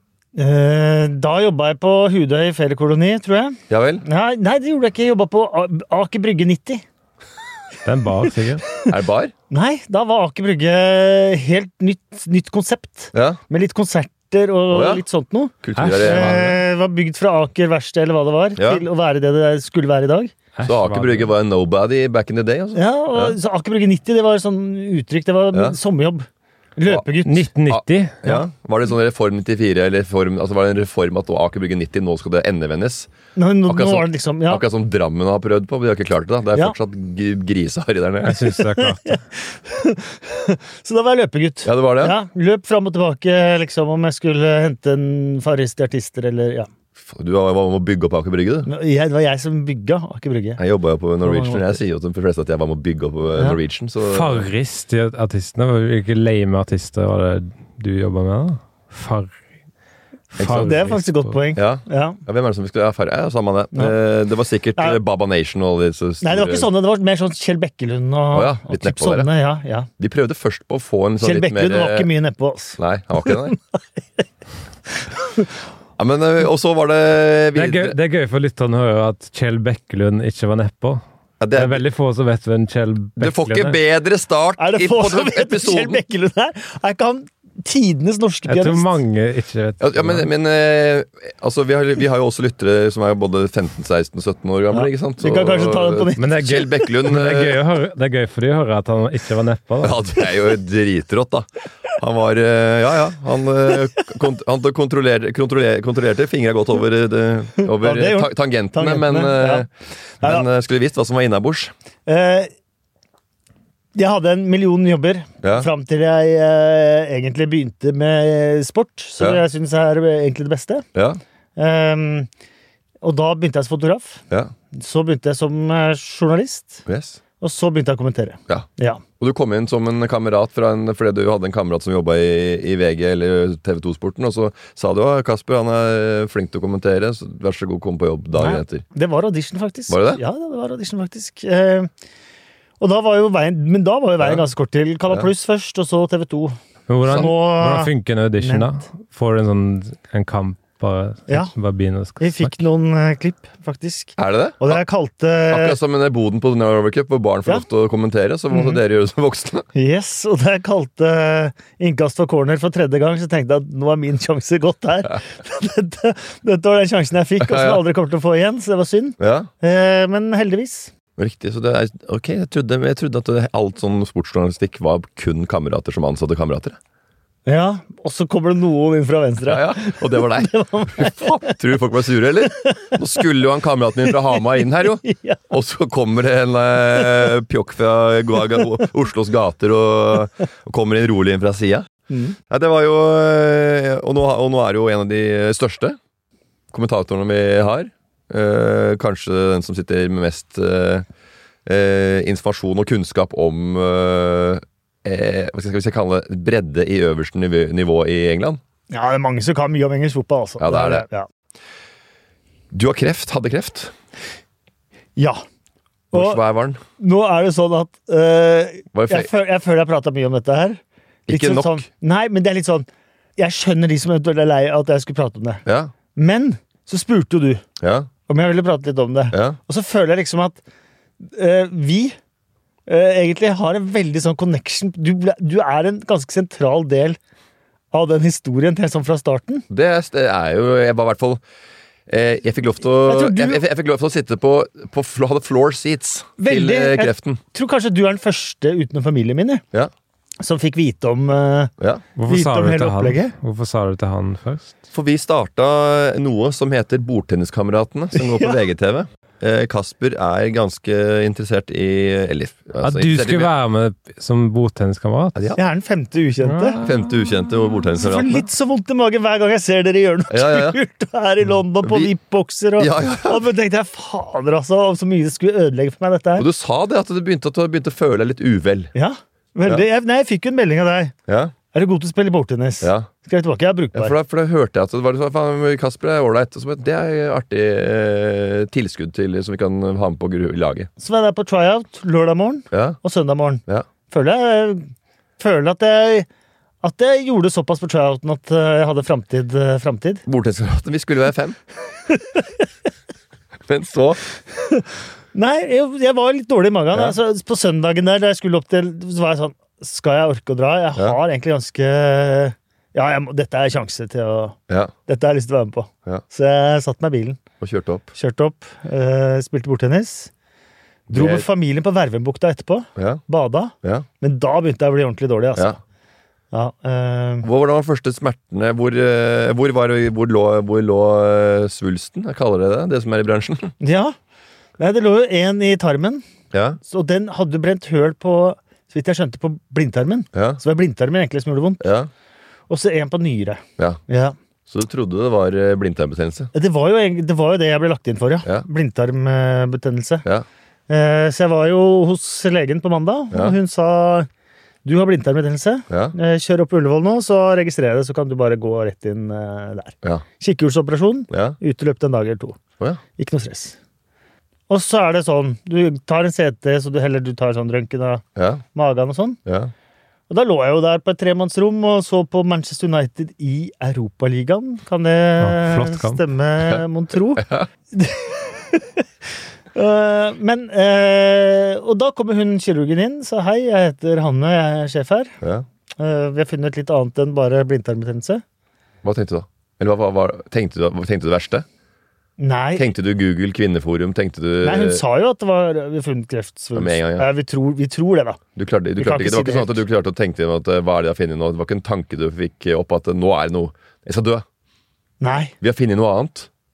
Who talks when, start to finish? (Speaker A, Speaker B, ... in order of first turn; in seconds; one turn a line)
Speaker A: 0.3-6.8
Speaker B: 3.7-4.0
Speaker C: 7.8-8.6
Speaker B: 8.9-9.3
Speaker A: 9.5-20.3
Speaker B: 13.1-13.4
Speaker B: 14.7-15.0
Speaker B: 15.6-16.6
Speaker C: 15.8-16.5
Speaker B: 18.6-18.8
Speaker C: 20.6-21.3
Speaker B: 20.6-23.4
Speaker A: 22.8-27.5
Speaker C: 27.2-28.2
Speaker B: 27.7-33.1
Speaker A: 33.3-34.6
Speaker B: 33.7-38.4
Speaker C: 38.2-39.2
Speaker A: 38.7-46.7
Speaker B: 41.6-42.2
Speaker B: 47.0-48.7
Speaker A: 48.6-50.6
Speaker B: 50.6-54.5
Speaker A: 51.2-51.8
Speaker C: 54.1-59.3
Speaker C: 60.3-61.3
Speaker B: 60.4-60.7
Speaker A: 60.4-62.2
Speaker B: 61.5-66.7
Speaker A: 66.2-69.9
Speaker B: 68.3-69.3
Speaker B: 70.0-72.1
Speaker A: 71.2-74.2
Speaker B: 72.8-73.6
Speaker A: 75.2-75.5
Speaker B: 76.0-78.0
Speaker C: 77.5-81.0
Speaker B: 81.4-81.8
Speaker C: 81.5-83.8
Speaker B: 83.2-86.0
Speaker A: 84.6-88.9
Speaker C: 88.5-90.3
Speaker B: 89.8-97.6
Speaker A: 94.7-96.4
Speaker C: 96.2-100.0
Speaker B: 99.8-109.7
Speaker A: 107.7-109.7
Speaker B: 110.2-111.7
Speaker A: 112.1-112.5
Speaker A: 113.9-120.8
Speaker B: 115.4-115.7
Speaker B: 120.9-121.2
Speaker A: 121.6-122.3
Speaker A: 123.0-126.8
Speaker B: 126.8-127.2
Speaker A: 127.4-129.0
Speaker B: 129.2-138.8
Speaker A: 138.3-141.9
Speaker B: 139.9-140.2
Speaker A: 142.8-146.6
Speaker C: 146.9-152.6
Speaker A: 147.1-148.7
Speaker A: 151.3-151.5
Speaker A: 152.2-155.8
Speaker B: 154.2-154.8
Speaker B: 155.5-159.7
Speaker A: 158.5-158.8
Speaker A: 159.7-170.9
Speaker B: 167.4-167.8
Speaker B: 169.2-169.5
Speaker B: 171.2-176.8
Speaker A: 177.4-181.6
Speaker B: 179.4-191.9
Speaker A: 182.6-183.0
Speaker A: 185.0-185.4
Speaker A: 192.1-192.3
Speaker B: 192.5-196.0
Speaker B: 196.7-201.1
Speaker B: 201.7-208.6
Speaker A: 208.9-211.3
Speaker B: 210.6-211.1
Speaker B: 212.7-213.9
Speaker A: 215.2-215.4
Speaker B: 216.1-216.8
Speaker A: 216.1-216.4
Speaker A: 217.0-225.6
Speaker B: 218.9-219.3
Speaker B: 221.3-221.8
Speaker B: 225.7-225.9
Speaker A: 226.2-227.6
Speaker B: 227.8-228.1
Speaker A: 228.3-230.6
Speaker B: 229.3-229.6
Speaker A: 231.2-232.2
Speaker A: 232.9-237.2
Speaker A: 237.9-239.7
Speaker B: 239.7-241.4
Speaker B: 242.1-247.4
Speaker A: 243.0-243.6
Speaker A: 246.4-249.6
Speaker A: 250.4-251.7
Speaker B: 251.8-252.0
Speaker C: 252.2-254.7
Speaker A: 252.2-253.3
Speaker B: 254.9-263.5
Speaker A: 258.1-258.6
Speaker C: 262.8-265.4
Speaker A: 265.6-266.8
Speaker C: 266.5-266.8
Speaker B: 266.8-268.4
Speaker A: 268.0-276.5
Speaker B: 270.3-270.8
Speaker B: 271.8-272.1
Speaker B: 272.8-273.4
Speaker B: 276.4-278.9
Speaker A: 278.9-281.1
Speaker B: 281.3-281.5
Speaker A: 281.7-284.1
Speaker B: 282.8-283.1
Speaker B: 283.9-290.9
Speaker A: 291.0-296.3
Speaker B: 292.7-293.0
Speaker A: 296.8-300.2
Speaker B: 300.2-301.6
Speaker A: 302.1-302.4
Speaker B: 303.7-304.2
Speaker A: 305.3-317.4
Speaker B: 317.6-318.1
Speaker A: 318.1-320.3
Speaker B: 321.1-321.4
Speaker A: 321.1-325.8
Speaker B: 322.9-323.2
Speaker A: 326.5-327.5
Speaker B: 327.4-333.7
Speaker A: 333.8-334.1
Speaker A: 334.8-336.2
Speaker B: 336.5-336.8
Speaker A: 336.8-341.9
Speaker B: 340.3-340.6
Speaker B: 341.8-342.1
Speaker A: 342.7-344.3
Speaker B: 344.7-346.5
Speaker A: 346.5-350.2
Speaker A: 350.9-354.3
Speaker A: 354.8-362.6
Speaker B: 355.9-356.1
Speaker B: 361.3-361.6
Speaker A: 363.2-363.8
Speaker A: 364.7-368.2
Speaker B: 368.4-368.6
Speaker A: 368.7-369.4
Speaker B: 369.4-369.7
Speaker A: 370.3-379.0
Speaker C: 375.4-376.2
Speaker B: 377.4-377.7
Speaker A: 379.7-385.4
Speaker A: 386.0-388.4
Speaker B: 389.0-391.6
Speaker A: 392.4-392.9
Speaker B: 392.8-395.0
Speaker A: 394.6-398.4
Speaker B: 396.7-397.3
Speaker B: 398.6-404.4
Speaker A: 399.0-399.8
Speaker A: 405.2-405.5
Speaker B: 405.6-406.5